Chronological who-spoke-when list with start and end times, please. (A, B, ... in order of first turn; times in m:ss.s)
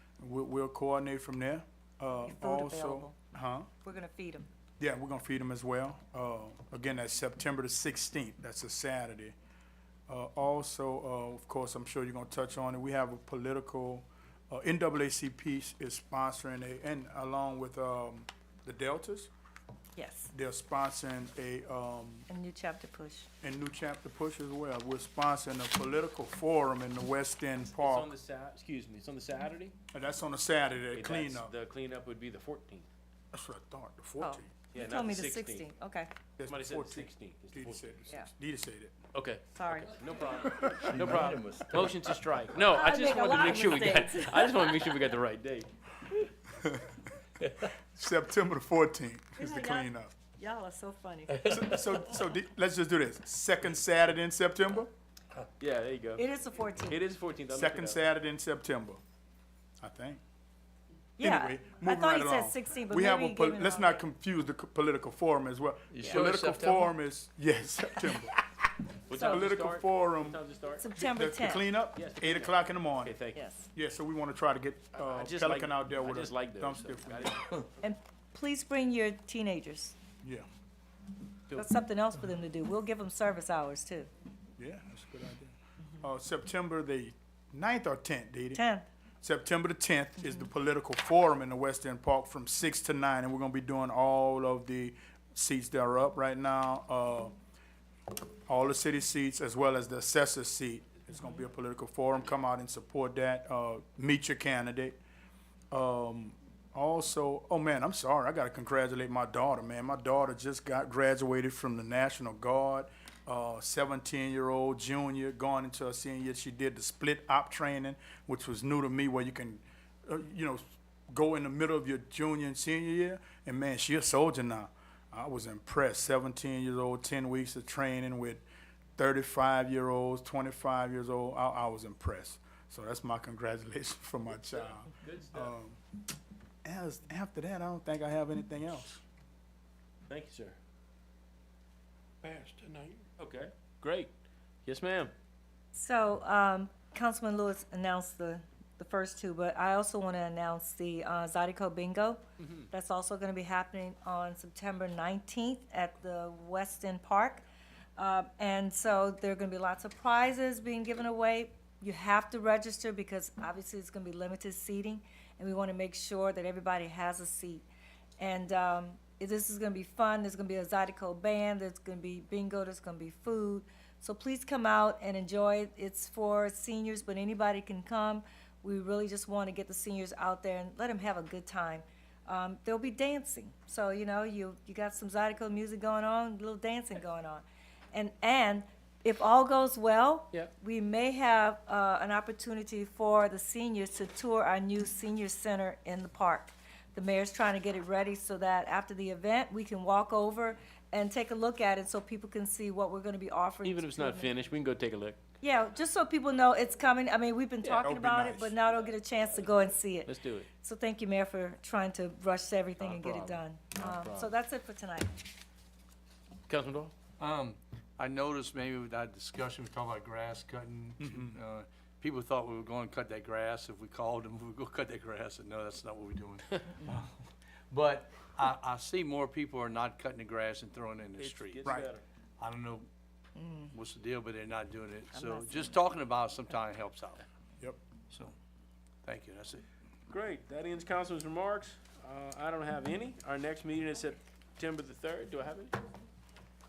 0:00.2-0:03.7 A
0:02.3-0:03.2 B
0:03.8-0:04.5 B
0:04.8-0:09.4 A
0:10.1-0:19.3 A
0:20.0-0:20.3 B
0:20.3-0:22.3 A
0:22.3-0:23.3 B
0:23.4-0:28.1 A
0:27.7-0:29.8 C
0:29.9-0:31.5 A
0:30.9-0:32.9 C
0:33.3-0:34.5 A
0:34.2-0:36.1 B
0:34.7-0:35.7 C
0:36.4-0:39.0 A
0:36.5-0:38.1 C
0:39.1-0:45.7 C
0:39.5-0:40.0 B
0:40.6-0:41.3 A
0:40.8-0:42.2 D
0:42.6-0:44.9 B
0:46.5-0:47.0 A
0:47.6-0:50.2 A
0:49.4-0:51.6 B
0:51.4-0:54.9 A
0:55.6-0:56.3 C
0:56.2-0:57.0 B
0:56.9-0:58.0 C
0:57.5-0:59.0 A
0:59.8-1:00.2 A
1:01.2-1:04.1 B
1:01.2-1:08.4 A
1:05.9-1:06.9 D
1:09.1-1:10.9 C
1:09.1-1:09.5 B
1:09.2-1:10.4 A
1:10.8-1:11.7 B
1:11.0-1:13.2 A
1:11.9-1:13.4 C
1:13.4-1:13.7 B
1:13.7-1:17.4 A
1:15.0-1:17.7 C
1:17.8-1:20.0 B
1:20.2-1:20.5 A
1:21.5-1:24.1 B
1:24.6-1:28.6 A
1:28.5-1:28.9 B
1:29.2-1:37.3 A
1:38.5-1:45.0 A
1:45.7-2:08.4 A
2:09.0-2:15.8 A
2:14.4-2:15.6 C
2:16.6-2:19.0 A
2:20.1-2:20.6 C
2:22.3-2:24.1 C
2:24.6-2:25.1 C
2:25.7-2:37.4 B
2:32.4-2:32.7 C
2:38.0-2:47.6 B
2:48.2-3:24.3 B
3:23.6-3:25.2 C
3:25.4-3:35.2 B
3:27.8-3:28.6 A
3:30.0-3:30.5 C
3:32.8-3:33.4 D
3:33.7-3:34.3 C
3:36.5-3:36.9 C
3:37.2-3:51.7 D
3:41.0-3:41.4 A
3:51.2-3:52.0 C
3:51.6-3:51.9 A
3:52.4-3:52.9 D
3:53.4-3:53.7 B
3:53.7-3:57.2 D
3:55.1-3:55.8 B
3:58.1-3:58.4 D
3:59.0-3:59.6 D
4:00.1-4:05.8 C